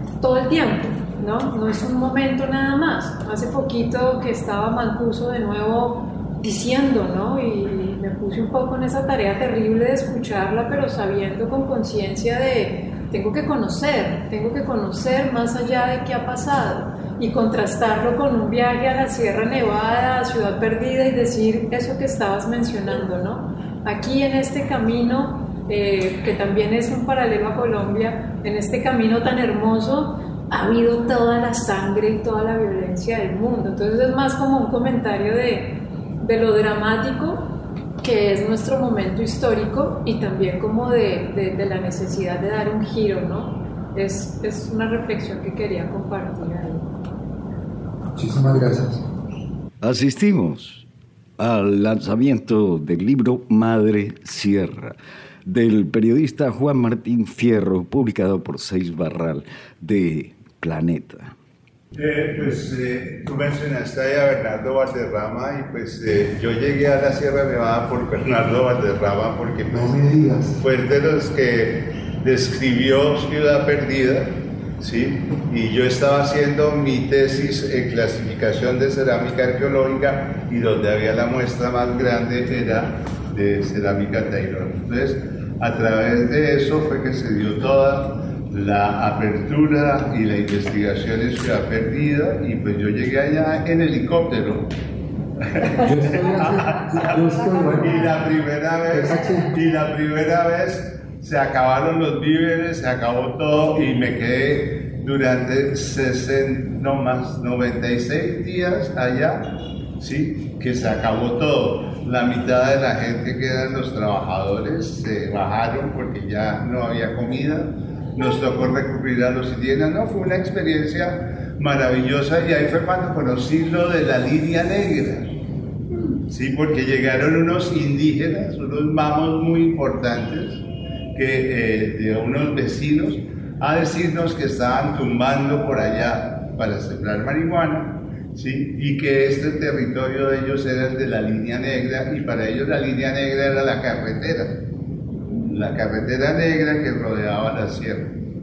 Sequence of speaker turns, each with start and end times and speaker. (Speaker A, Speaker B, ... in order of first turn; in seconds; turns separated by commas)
Speaker A: 0.2-46.9, Speaker B: 48.1-49.0, Speaker C: 49.8-50.9, Speaker C: 51.4-61.3, Speaker D: 61.9-70.0, Speaker B: 69.7-70.6, Speaker D: 70.5-94.7, Speaker D: 95.4-109.4, Speaker B: 95.8-97.9, Speaker B: 98.9-99.4, Speaker D: 110.0-125.3, Speaker D: 126.3-130.6, Speaker D: 131.1-144.6, Speaker D: 145.3-148.1